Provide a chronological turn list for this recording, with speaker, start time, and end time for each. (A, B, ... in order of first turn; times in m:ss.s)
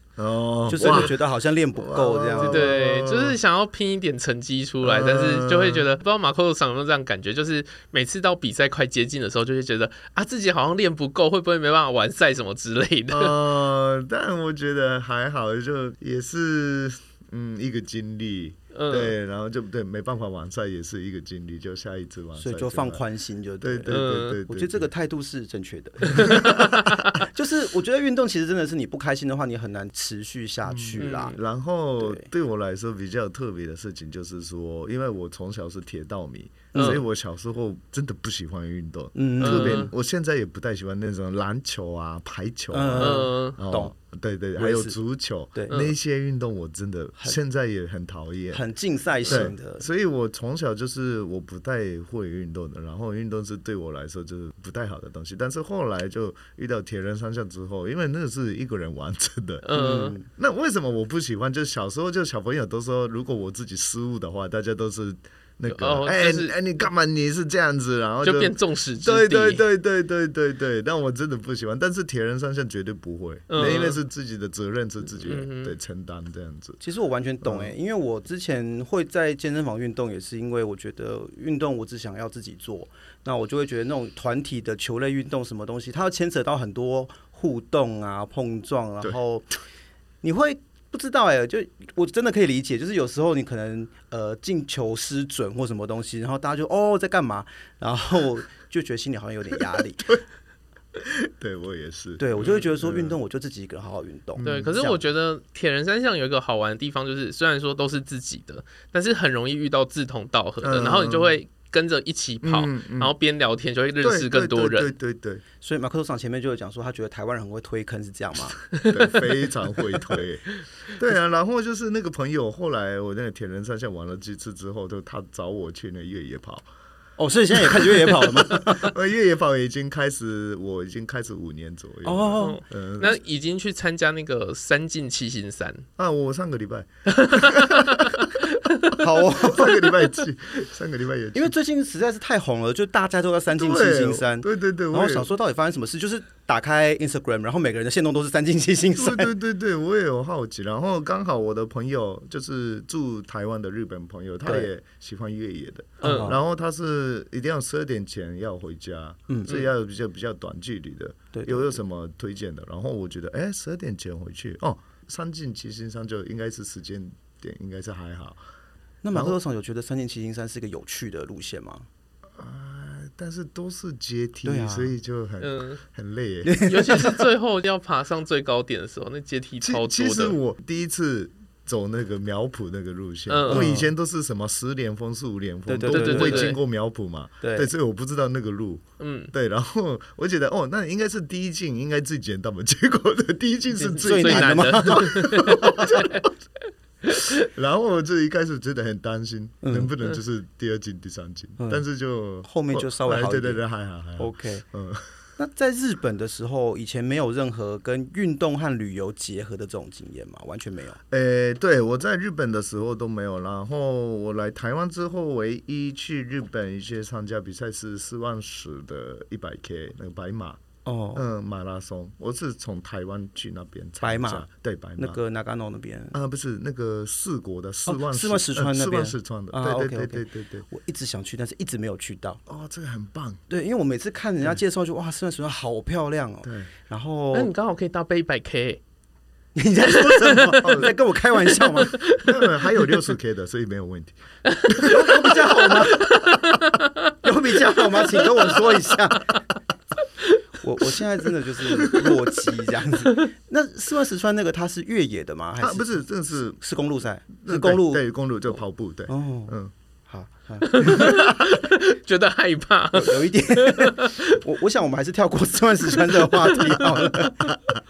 0:00.2-0:01.2 A
0:00.7-0:02.8 B
0:01.8-0:03.4 A
0:02.4-0:13.4 C
0:04.8-0:05.8 A
0:13.1-0:23.0 A
0:18.7-0:19.1 C
0:22.4-0:31.4 B
0:23.6-0:24.9 A
0:23.9-0:24.4 C
0:26.1-0:27.1 A
0:26.1-0:27.1 C
0:30.7-0:48.6 A
0:31.0-0:31.4 C
0:32.0-0:32.3 B
0:36.7-0:37.0 B
0:36.7-0:37.0 C
0:39.2-0:39.9 B
0:39.4-0:39.9 C
0:42.7-0:43.9 B
0:43.0-0:43.6 C
0:44.6-0:45.0 B
0:45.6-0:45.8 B
0:48.5-0:49.9 B
0:49.3-1:16.8 A
0:59.6-1:00.2 C
0:59.7-1:00.3 B
1:05.7-1:06.5 C
1:08.2-1:09.6 C
1:13.5-1:14.0 C
1:15.2-1:15.8 C
1:16.8-1:29.5 B
1:17.4-1:17.7 A
1:30.2-1:40.2 B
1:39.6-1:40.2 A
1:41.0-1:43.2 A
1:42.2-1:45.0 B
1:44.4-1:44.8 A
1:44.4-1:54.9 C
1:50.6-1:51.4 A
1:52.4-1:53.1 A
1:54.0-1:55.4 A
1:55.6-1:58.6 B
1:58.8-1:59.2 C
1:58.9-2:06.7 A
2:07.2-2:09.0 B
2:07.5-2:13.2 A
2:12.0-2:12.6 B
2:12.4-2:15.9 C
2:16.0-2:21.6 A
2:17.1-2:19.0 C
2:19.0-2:20.1 B
2:21.3-2:29.3 B
2:23.5-2:25.3 A
2:29.0-2:48.4 A
2:34.4-2:34.7 B
2:36.0-2:36.4 C
2:36.0-2:36.4 B
2:39.3-2:39.7 B
2:41.3-2:41.8 B
2:49.0-2:51.9 B
2:49.1-2:49.4 A
2:52.4-2:56.6 A
2:54.4-2:55.0 B
2:55.4-2:55.8 C
2:56.4-2:57.3 B
2:56.6-3:00.4 C
2:59.6-3:16.3 A
3:03.3-3:03.7 C
3:03.5-3:03.9 B
3:05.7-3:06.6 B
3:05.9-3:06.6 C
3:07.4-3:07.7 B
3:09.0-3:09.3 C
3:13.8-3:15.5 B
3:14.0-3:16.3 C
3:17.1-3:17.5 C
3:17.1-3:25.1 A
3:19.6-3:19.9 B
3:21.6-3:21.8 B
3:22.4-3:23.6 B
3:24.2-3:24.6 B
3:25.4-3:31.0 B
3:31.1-3:40.6 A
3:40.8-3:41.2 B
3:41.2-3:45.2 A
3:44.0-3:44.5 B
3:45.0-3:46.2 B
3:46.1-3:50.7 A
3:47.9-3:52.4 B
3:52.5-3:53.4 A
3:53.5-3:57.5 B
3:56.4-3:56.7 A
3:57.3-3:58.8 C
3:59.6-4:02.0 B
4:00.0-4:00.8 C
4:00.6-4:00.9 A
4:01.8-4:02.4 C
4:02.2-4:06.3 A
4:04.5-4:07.1 C
4:04.8-4:06.1 B
4:07.2-4:09.4 B
4:08.0-4:08.5 C
4:10.6-4:18.0 B
4:11.8-4:12.1 A
4:15.6-4:16.6 A
4:17.4-4:19.7 A
4:19.1-4:19.6 B
4:20.1-4:21.3 B
4:20.6-4:24.4 C
4:21.0-4:21.3 A
4:22.9-4:27.6 B
4:26.3-4:26.9 C